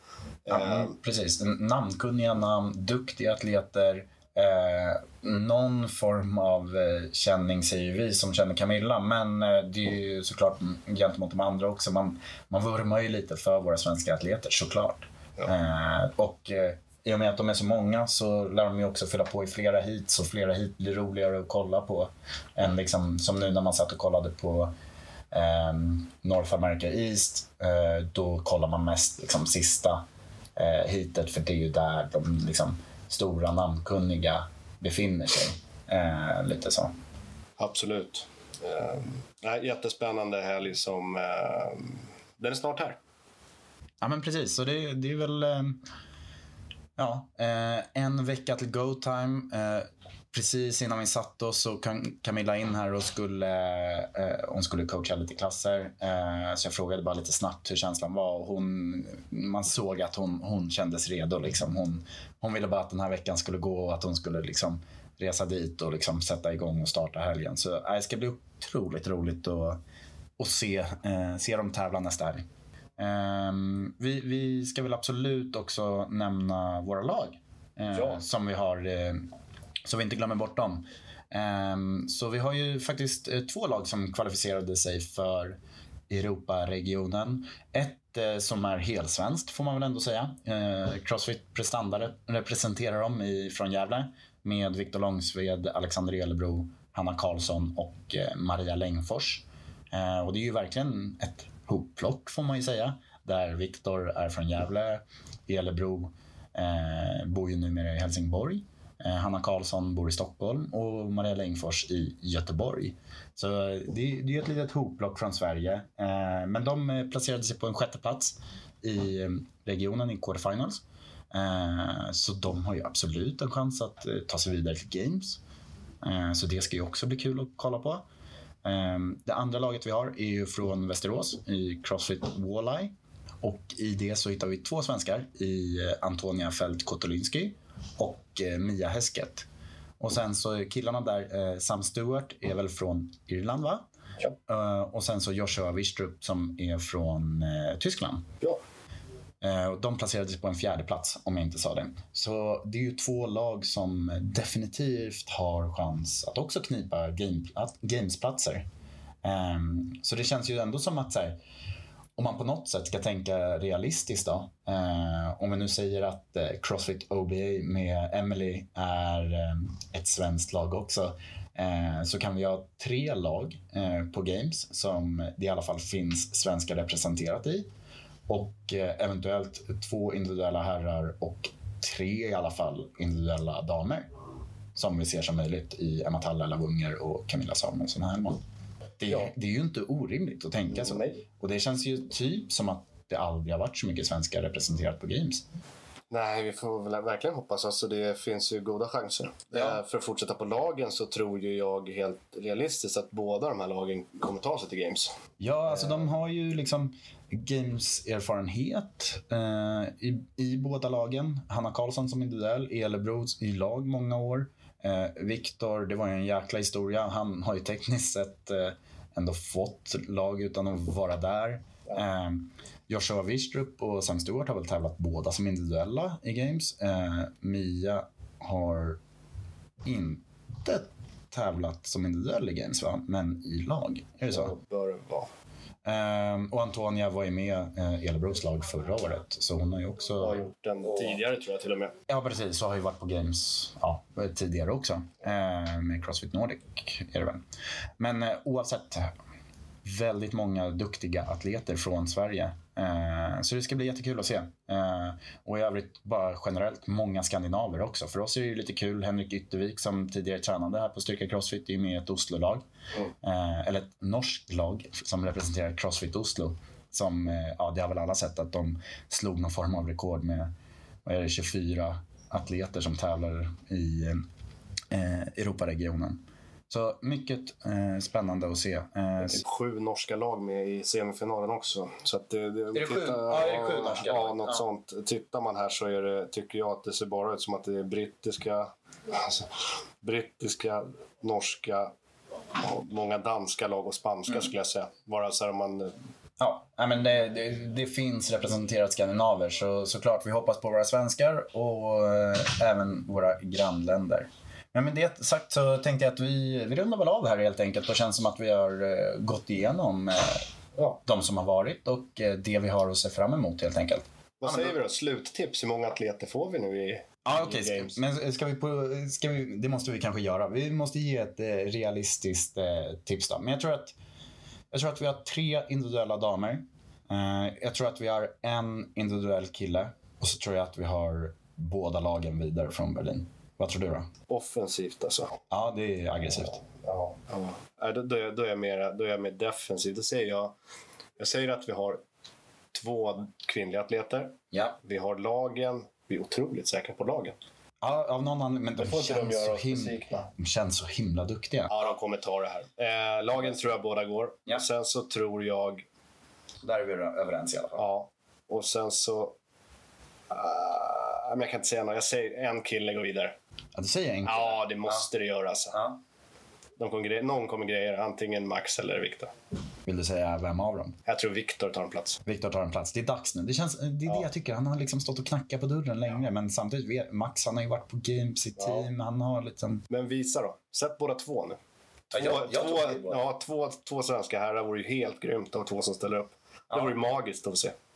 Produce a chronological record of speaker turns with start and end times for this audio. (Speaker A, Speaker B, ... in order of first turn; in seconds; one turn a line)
Speaker A: 0.4-0.9
Speaker B: 0.5-24.7
Speaker B: 25.3-30.0
Speaker B: 30.6-36.9
Speaker A: 37.6-43.0
Speaker B: 44.0-45.8
Speaker B: 47.0-69.8
Speaker B: 70.4-72.5
Speaker B: 73.0-79.3
Speaker A: 77.9-78.2
Speaker B: 79.8-85.6
Speaker B: 86.1-125.4
Speaker B: 126.0-128.0
Speaker B: 128.6-139.5
Speaker B: 140.0-143.8
Speaker B: 144.5-148.3
Speaker B: 149.4-158.7
Speaker B: 159.2-161.4
Speaker B: 162.2-177.7
Speaker B: 178.3-184.1
Speaker B: 184.7-188.4
Speaker B: 189.0-195.4
Speaker A: 189.1-189.3
Speaker A: 190.7-191.2
Speaker A: 196.1-205.1
Speaker B: 199.5-199.8
Speaker B: 205.4-229.0
Speaker A: 205.7-206.1
Speaker B: 229.8-234.5
Speaker A: 234.2-235.3
Speaker B: 235.8-241.2
Speaker A: 240.2-241.9
Speaker B: 242.1-247.4
Speaker B: 248.0-249.1
Speaker B: 249.8-262.6
Speaker B: 263.2-270.5
Speaker B: 271.0-274.2
Speaker B: 274.9-279.4
Speaker A: 279.2-289.5
Speaker B: 282.7-284.6
Speaker A: 290.0-291.9
Speaker A: 292.6-295.9
Speaker B: 296.4-310.4
Speaker B: 311.1-314.8
Speaker A: 314.4-318.0
Speaker B: 317.2-323.9
Speaker B: 324.7-334.1
Speaker A: 334.3-335.4
Speaker B: 335.5-336.6
Speaker A: 336.7-340.5
Speaker A: 341.2-342.0
Speaker A: 342.7-347.4
Speaker B: 344.5-344.8
Speaker B: 347.8-351.7
Speaker A: 348.8-350.3
Speaker A: 351.7-355.8
Speaker B: 353.4-353.7
Speaker B: 356.6-357.8
Speaker A: 357.7-359.4
Speaker A: 360.3-363.3
Speaker B: 363.7-365.1
Speaker A: 364.2-365.8
Speaker B: 365.7-366.0
Speaker A: 366.8-369.3
Speaker B: 369.8-370.9
Speaker A: 371.1-372.2
Speaker B: 372.2-379.8
Speaker A: 378.6-378.9
Speaker A: 379.9-381.6
Speaker A: 382.1-387.7
Speaker B: 382.1-383.2
Speaker B: 386.7-387.0